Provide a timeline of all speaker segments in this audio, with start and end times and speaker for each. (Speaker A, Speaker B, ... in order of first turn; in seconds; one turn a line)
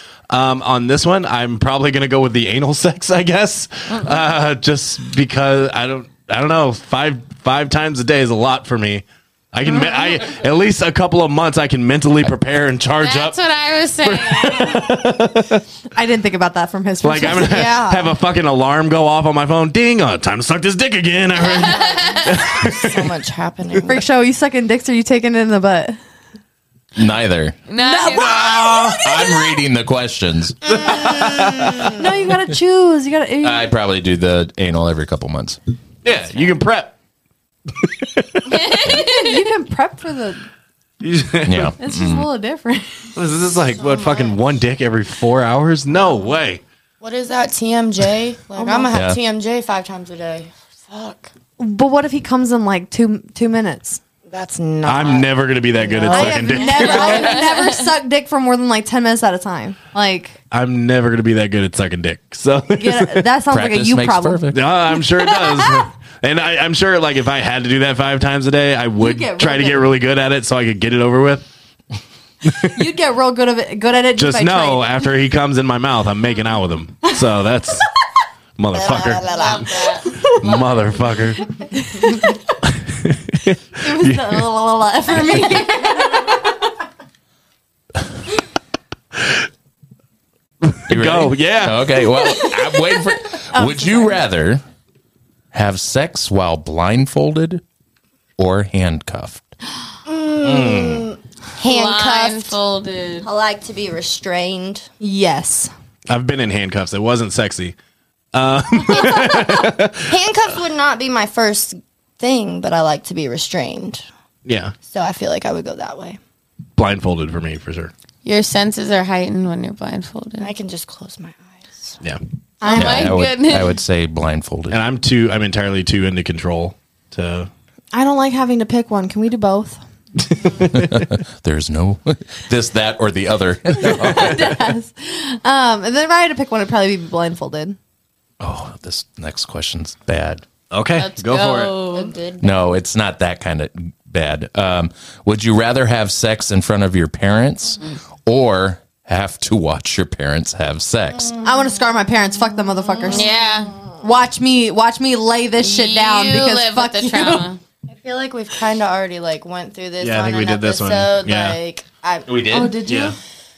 Speaker A: 0.3-13.4
Speaker B: 13.0-14.8
Speaker A: 14.0-15.6
Speaker C: 15.9-18.0
Speaker A: 17.0-23.2
Speaker D: 17.4-18.1
Speaker B: 21.5-22.3
Speaker D: 21.5-24.0
Speaker C: 23.9-26.0
Speaker E: 27.0-27.6
Speaker B: 27.7-28.8
Speaker C: 27.8-29.4
Speaker A: 28.1-29.1
Speaker E: 29.0-30.9
Speaker A: 30.7-31.9
Speaker D: 30.7-32.1
Speaker C: 31.9-33.7
Speaker E: 33.4-35.6
Speaker A: 36.0-36.9
Speaker A: 37.7-38.9
Speaker B: 38.5-39.4
Speaker C: 38.9-40.4
Speaker A: 41.0-41.7
Speaker E: 41.5-42.3
Speaker C: 41.8-43.1
Speaker A: 43.2-46.6
Speaker D: 43.7-44.4
Speaker D: 47.0-51.3
Speaker C: 48.6-48.9
Speaker E: 48.9-49.2
Speaker C: 51.6-54.0
Speaker D: 54.3-57.4
Speaker A: 54.9-57.5
Speaker C: 56.0-60.4
Speaker B: 56.9-57.8
Speaker A: 60.5-63.3
Speaker C: 62.8-65.8
Speaker E: 63.5-64.7
Speaker A: 64.5-71.5
Speaker C: 69.0-70.0
Speaker A: 72.5-72.8
Speaker C: 72.7-75.0
Speaker A: 74.2-77.9
Speaker A: 78.6-79.6
Speaker D: 78.7-80.1
Speaker B: 79.2-80.1
Speaker C: 80.0-80.5
Speaker A: 80.2-81.5
Speaker C: 81.7-82.4
Speaker A: 82.7-84.5
Speaker C: 83.8-86.7
Speaker A: 89.2-89.5
Speaker A: 90.6-92.0
Speaker E: 90.9-94.6
Speaker C: 93.5-94.2
Speaker E: 95.5-97.6
Speaker E: 98.4-99.5
Speaker D: 100.1-102.6
Speaker A: 100.4-101.1
Speaker B: 101.6-103.3
Speaker D: 103.2-104.9
Speaker C: 105.0-105.7
Speaker A: 106.1-107.8
Speaker A: 108.3-110.1
Speaker D: 109.2-109.5
Speaker D: 110.1-114.0
Speaker A: 114.5-114.8
Speaker D: 114.8-116.2
Speaker A: 116.8-117.9
Speaker B: 118.2-120.5
Speaker D: 120.4-122.0
Speaker C: 122.6-123.2
Speaker B: 122.6-123.8
Speaker E: 122.7-124.8
Speaker A: 124.7-127.5
Speaker C: 127.9-129.8
Speaker A: 130.2-131.1
Speaker E: 130.7-134.5
Speaker C: 133.8-137.8
Speaker E: 138.4-140.4
Speaker A: 140.7-141.8
Speaker B: 141.0-142.1
Speaker D: 141.9-142.7
Speaker E: 142.4-151.3
Speaker C: 151.4-153.3
Speaker D: 152.9-153.8
Speaker B: 153.1-153.7
Speaker C: 154.0-157.5
Speaker B: 155.6-157.6
Speaker D: 157.9-162.6
Speaker A: 160.0-161.6
Speaker E: 162.3-162.8
Speaker C: 162.5-163.2
Speaker A: 162.8-163.2